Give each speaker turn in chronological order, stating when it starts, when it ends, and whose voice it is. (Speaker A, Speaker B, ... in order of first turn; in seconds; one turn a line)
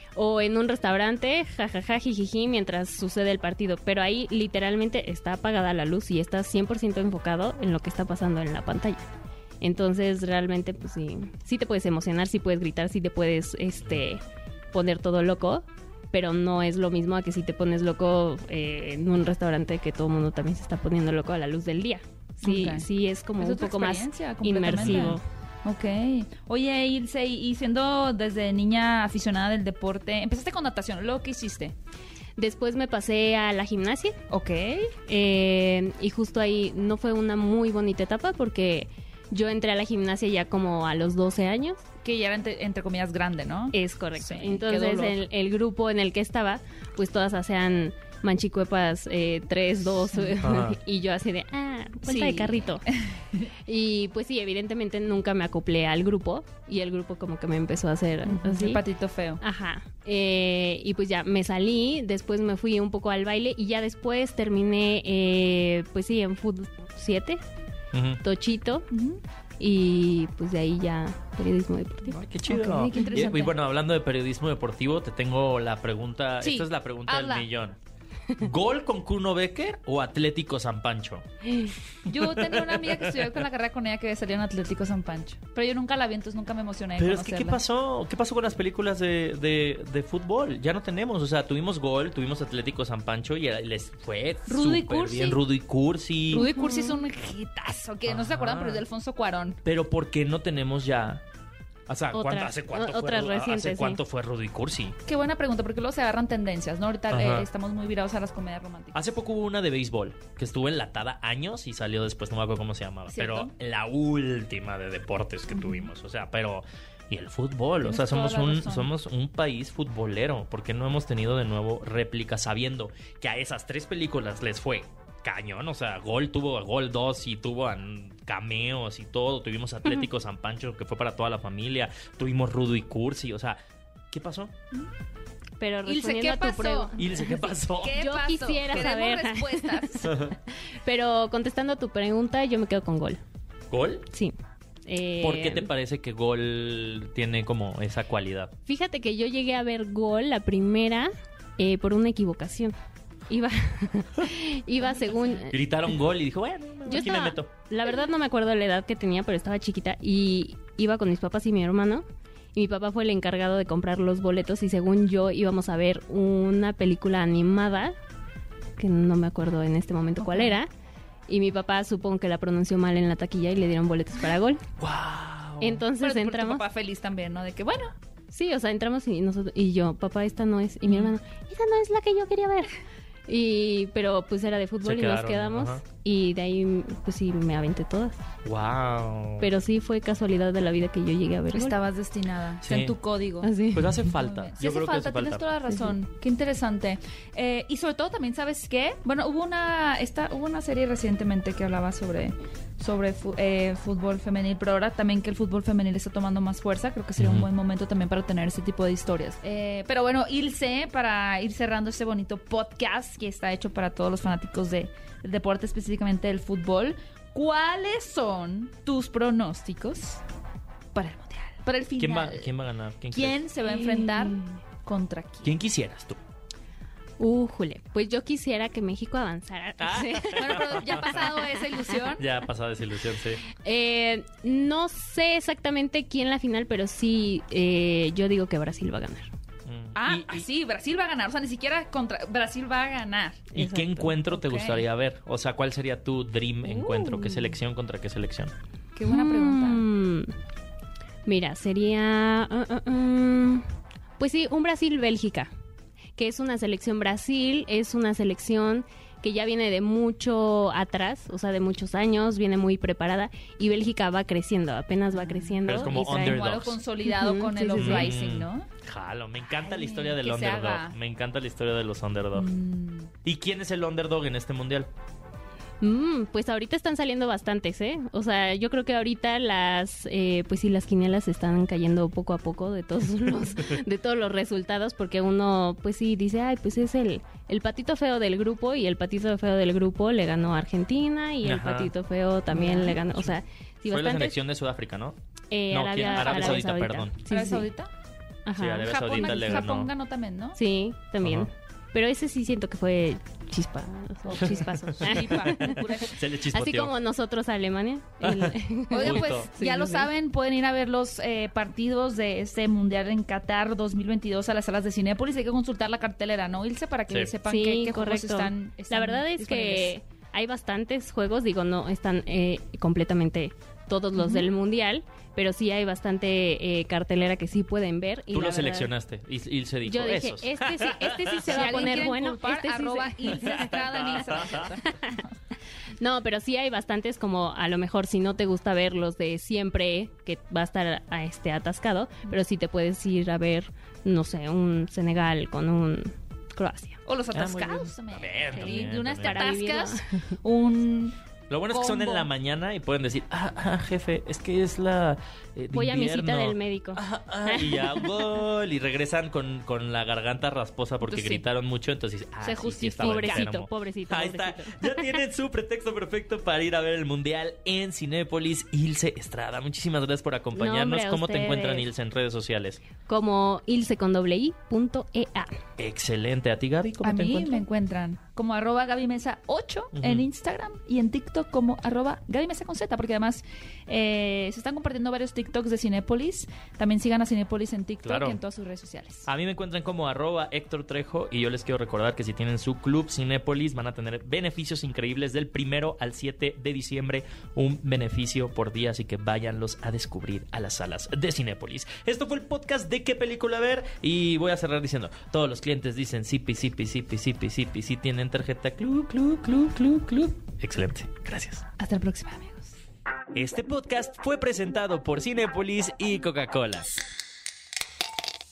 Speaker A: 0.1-9.1
Speaker A: 9.6-25.2
Speaker B: 22.4-22.9
Speaker B: 23.4-31.7
Speaker C: 24.7-25.2
Speaker A: 32.4-34.1
Speaker B: 34.3-34.9
Speaker A: 35.1-41.8
Speaker B: 42.0-45.2
Speaker A: 43.7-52.8
Speaker C: 50.4-50.8
Speaker B: 52.0-53.5
Speaker A: 53.7-58.8
Speaker B: 58.2-59.4
Speaker A: 59.4-67.4
Speaker C: 67.9-68.2
Speaker A: 68.2-68.9
Speaker B: 68.9-69.2
Speaker A: 69.6-72.2
Speaker C: 72.1-77.8
Speaker B: 72.5-73.5
Speaker B: 76.4-77.5
Speaker C: 78.4-81.2
Speaker A: 81.5-81.7
Speaker C: 82.0-83.2
Speaker B: 82.0-87.6
Speaker C: 87.0-96.4
Speaker B: 94.5-95.4
Speaker B: 96.3-99.6
Speaker A: 96.3-97.0
Speaker C: 98.1-98.8
Speaker C: 99.6-101.2
Speaker C: 101.9-105.0
Speaker A: 102.1-104.0
Speaker B: 105.0-109.0
Speaker C: 107.1-107.5
Speaker C: 108.9-133.6
Speaker B: 113.1-113.5
Speaker B: 115.5-115.9
Speaker B: 117.8-118.9
Speaker C: 134.1-134.5
Speaker A: 135.6-143.2
Speaker B: 135.8-136.9
Speaker C: 137.0-138.0
Speaker B: 137.8-140.1
Speaker C: 140.0-140.3
Speaker C: 143.7-144.1
Speaker A: 144.1-144.3
Speaker A: 144.8-145.7
Speaker C: 145.2-148.5
Speaker A: 148.6-152.7
Speaker A: 153.3-155.6
Speaker B: 154.9-155.4
Speaker C: 155.5-157.5
Speaker A: 156.8-167.9
Speaker A: 168.8-170.7
Speaker B: 170.2-170.6
Speaker A: 171.3-174.6
Speaker C: 174.8-175.8
Speaker A: 175.6-176.6
Speaker B: 176.0-177.9
Speaker A: 178.3-182.7
Speaker B: 180.9-181.1
Speaker A: 183.3-188.2
Speaker C: 184.8-185.8
Speaker C: 188.4-189.5
Speaker A: 189.4-191.8
Speaker B: 191.5-193.5
Speaker C: 192.6-192.9
Speaker A: 193.4-194.1
Speaker C: 193.7-195.5
Speaker B: 194.1-220.2
Speaker A: 195.7-195.9
Speaker C: 207.2-207.5
Speaker B: 220.9-222.5
Speaker C: 222.0-223.4
Speaker B: 223.1-225.5
Speaker A: 223.6-224.5
Speaker C: 225.4-226.2
Speaker A: 227.2-231.6
Speaker C: 229.8-231.2
Speaker B: 230.3-232.3
Speaker C: 232.2-233.4
Speaker A: 233.6-239.3
Speaker C: 239.7-240.5
Speaker B: 239.9-243.5
Speaker C: 243.5-248.5
Speaker A: 243.5-244.1
Speaker B: 244.2-244.8
Speaker B: 246.8-247.5
Speaker B: 248.9-249.8
Speaker A: 249.1-250.3
Speaker A: 251.2-253.6
Speaker A: 254.2-255.5
Speaker A: 256.1-266.4
Speaker B: 265.1-268.7
Speaker C: 265.7-266.8
Speaker A: 267.0-268.1
Speaker C: 267.8-272.5
Speaker B: 269.6-270.9
Speaker B: 272.3-273.1
Speaker C: 273.2-274.9
Speaker A: 275.8-294.4
Speaker C: 291.4-291.9
Speaker B: 292.5-293.0
Speaker C: 293.1-295.1
Speaker A: 295.5-297.7
Speaker C: 295.7-297.2
Speaker B: 296.0-296.6
Speaker B: 297.3-297.9
Speaker A: 298.4-299.7
Speaker C: 298.6-299.9
Speaker B: 298.8-300.6
Speaker A: 300.5-310.1
Speaker C: 301.2-301.5
Speaker B: 304.3-306.1
Speaker C: 304.4-306.9
Speaker C: 308.2-309.5
Speaker B: 308.9-319.9
Speaker A: 317.4-328.9
Speaker B: 324.2-324.5
Speaker C: 328.3-331.9
Speaker A: 329.8-333.8
Speaker B: 331.5-335.3
Speaker C: 333.3-334.7
Speaker A: 334.8-335.2
Speaker A: 336.0-347.0
Speaker B: 347.1-351.1
Speaker C: 347.3-349.6
Speaker A: 348.5-350.1
Speaker C: 351.5-372.8
Speaker B: 351.7-352.3
Speaker A: 355.7-358.2
Speaker B: 361.0-361.4
Speaker B: 362.4-363.5
Speaker A: 363.0-365.0
Speaker A: 370.5-371.9
Speaker A: 373.1-375.6
Speaker C: 375.8-377.6
Speaker B: 377.0-389.3
Speaker C: 379.9-380.2
Speaker C: 388.0-388.4
Speaker C: 389.2-411.6
Speaker B: 411.8-412.7
Speaker C: 413.3-417.0